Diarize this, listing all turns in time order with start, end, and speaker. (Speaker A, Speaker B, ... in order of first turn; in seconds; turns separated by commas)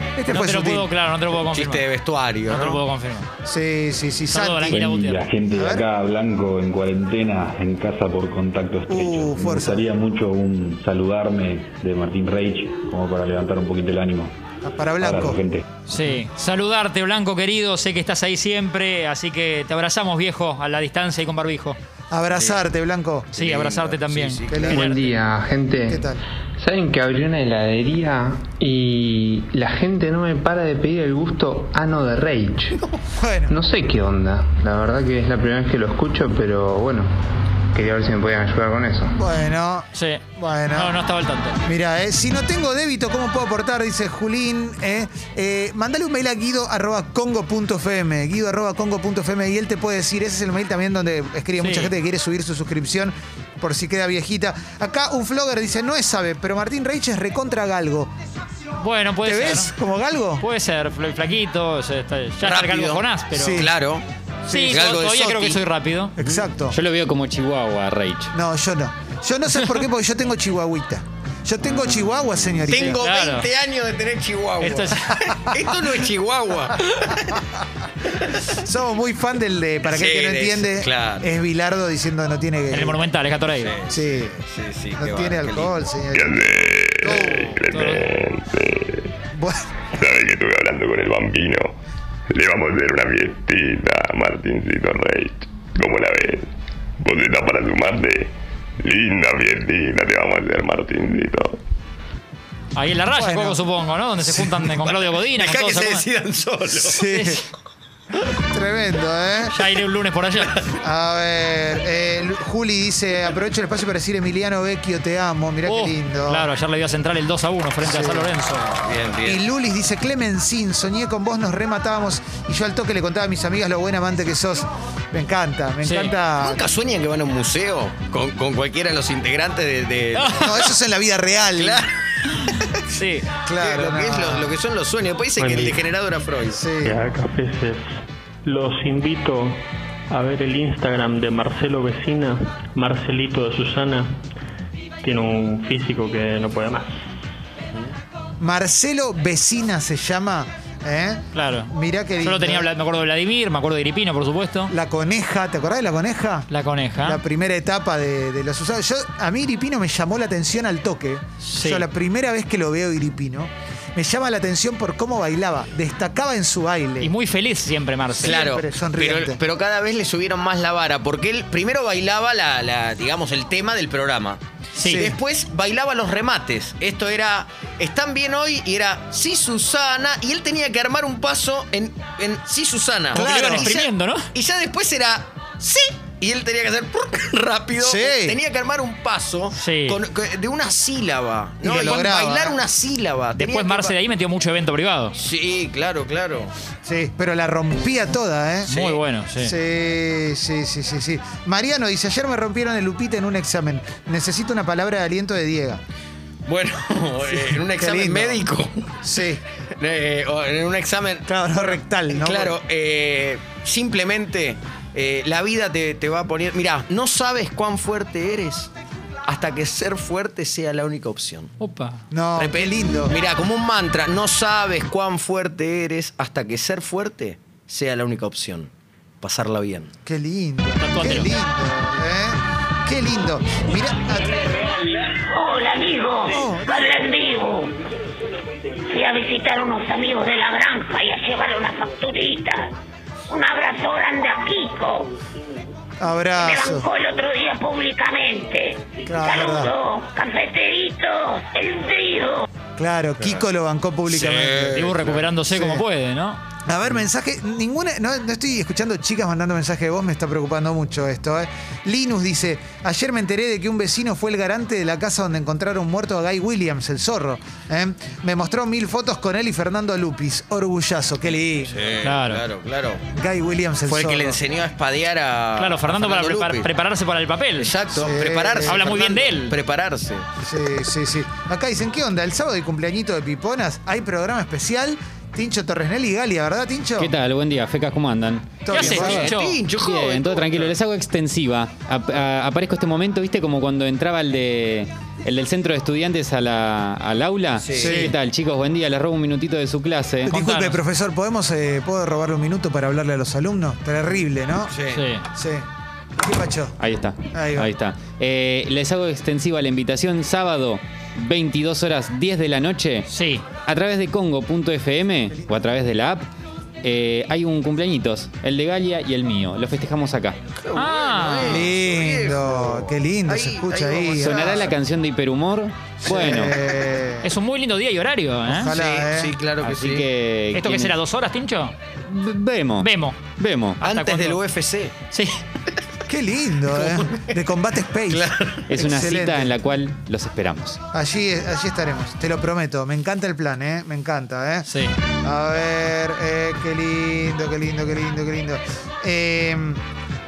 Speaker A: 0.2-0.9, Speaker B: 0.3-1.9, Speaker C: 1.5-2.8, Speaker B: 2.5-3.3, Speaker A: 3.5-4.9, Speaker B: 4.3-5.3, Speaker D: 4.7-14.3, Speaker A: 5.5-5.8, Speaker A: 8.9-9.9, Speaker A: 14.6-15.4, Speaker D: 15.0-15.6, Speaker B: 15.9-21.8, Speaker A: 22.1-23.3, Speaker C: 22.3-22.7, Speaker B: 23.3-25.1, Speaker C: 23.3-25.1, Speaker A: 24.5-24.8, Speaker E: 24.8-26.0, Speaker A: 25.9-26.2, Speaker E: 26.6-32.8, Speaker A: 33.2-33.6, Speaker E: 33.5-37.1, Speaker E: 37.7-39.2, Speaker A: 39.1-40.9, Speaker B: 39.9-41.6, Speaker A: 41.6-58.1, Speaker B: 51.6-51.9, Speaker B: 58.8-59.7, Speaker A: 59.2-60.4, Speaker B: 60.4-63.7, Speaker C: 62.4-64.0, Speaker A: 63.3-63.7, Speaker A: 64.5-64.8, Speaker B: 64.5-66.2, Speaker C: 64.7-65.6, Speaker A: 66.2-66.8, Speaker C: 66.2-66.5, Speaker F: 66.7-68.3, Speaker A: 68.3-73.0, Speaker C: 72.7-77.4, Speaker B: 72.7-73.5, Speaker B: 74.6-75.1, Speaker A: 78.5-83.0, Speaker C: 79.8-81.3, Speaker B: 82.7-83.8, Speaker C: 83.6-85.8, Speaker A: 83.9-84.4, Speaker A: 85.0-86.5, Speaker G: 86.1-89.1, Speaker A: 87.0-87.5, Speaker B: 87.3-88.1, Speaker A: 89.4-89.6, Speaker G: 90.0-91.7, Speaker G: 92.3-96.5, Speaker G: 97.0-101.6, Speaker B: 102.8-106.1, Speaker A: 103.1-103.6, Speaker A: 104.2-104.5, Speaker C: 104.9-107.0, Speaker A: 106.8-107.4, Speaker B: 107.1-107.4, Speaker A: 108.3-109.5, Speaker B: 109.5-110.6, Speaker A: 110.8-116.5, Speaker B: 115.7-118.7, Speaker A: 117.8-118.3, Speaker C: 118.7-119.4, Speaker A: 119.2-126.6, Speaker B: 125.8-126.2, Speaker C: 126.4-130.7, Speaker B: 130.2-130.7, Speaker A: 130.4-131.8, Speaker C: 131.6-131.9, Speaker B: 132.9-133.3, Speaker A: 133.4-134.5, Speaker C: 133.5-136.7, Speaker H: 135.4-135.8, Speaker A: 136.5-137.1, Speaker H: 136.8-137.9, Speaker H: 138.4-144.2, Speaker H: 145.0-146.9, Speaker A: 148.4-152.7, Speaker B: 151.3-154.7, Speaker A: 154.7-156.5, Speaker B: 156.5-157.2, Speaker A: 157.0-167.1, Speaker B: 161.4-161.8, Speaker B: 167.0-168.4, Speaker A: 168.2-169.4, Speaker C: 168.2-193.9, Speaker B: 174.8-175.1, Speaker B: 183.1-184.3, Speaker A: 183.1-183.7, Speaker A: 187.8-188.4, Speaker B: 189.5-190.0, Speaker A: 191.6-192.6, Speaker B: 191.8-192.1, Speaker B: 193.3-195.2, Speaker C: 195.2-196.5, Speaker A: 196.8-198.7, Speaker C: 198.7-199.0, Speaker B: 198.7-199.5, Speaker A: 199.4-205.8, Speaker C: 206.5-209.0, Speaker A: 207.3-208.5, Speaker A: 209.0-209.4, Speaker C: 209.8-218.7, Speaker A: 211.3-212.6, Speaker C: 219.3-221.5, Speaker B: 221.6-222.0, Speaker A: 222.1-223.2, Speaker C: 222.4-228.7, Speaker C: 229.2-229.9, Speaker A: 230.1-234.6, Speaker B: 230.8-231.3, Speaker I: 235.4-237.7, Speaker A: 236.3-237.0, Speaker I: 238.9-242.7, Speaker I: 243.3-245.1, Speaker A: 246.0-246.9, Speaker I: 246.4-252.4, Speaker A: 249.1-249.7, Speaker A: 252.8-254.9, Speaker C: 254.1-255.2, Speaker B: 254.7-256.4, Speaker A: 255.5-255.8, Speaker A: 256.7-271.8, Speaker C: 271.6-273.0, Speaker B: 272.0-272.4, Speaker A: 273.1-274.4, Speaker C: 273.9-276.7, Speaker B: 275.6-277.8, Speaker C: 277.6-280.3, Speaker A: 278.0-278.8, Speaker B: 278.6-279.6, Speaker A: 280.4-287.1, Speaker F: 287.0-300.3, Speaker A: 288.6-289.3, Speaker B: 288.7-289.6, Speaker C: 288.7-290.7, Speaker C: 297.6-298.0, Speaker A: 297.8-298.1, Speaker B: 297.9-298.1, Speaker A: 300.3-304.7, Speaker B: 300.3-300.8, Speaker C: 304.7-305.0, Speaker B: 304.9-305.2, Speaker A: 305.4-305.6, Speaker A: 306.2-306.8, Speaker F: 306.8-313.1, Speaker A: 307.3-307.7, Speaker B: 313.1-313.5, Speaker F: 313.6-316.3, Speaker F: 316.8-320.4, Speaker C: 320.6-324.7, Speaker B: 320.7-321.7, Speaker A: 321.5-324.8, Speaker F: 324.2-326.5, Speaker C: 326.0-326.5, Speaker A: 326.1-327.3, Speaker B: 327.2-328.7, Speaker A: 328.6-329.3, Speaker C: 328.6-330.1, Speaker F: 329.6-331.0, Speaker B: 330.5-331.8, Speaker F: 332.1-333.8, Speaker B: 332.8-333.2, Speaker B: 333.8-334.4, Speaker C: 333.8-334.9, Speaker A: 336.1-339.5, Speaker C: 336.7-337.5, Speaker C: 338.1-338.9, Speaker F: 338.7-340.8, Speaker A: 340.9-344.7, Speaker B: 344.7-344.9, Speaker A: 345.2-349.8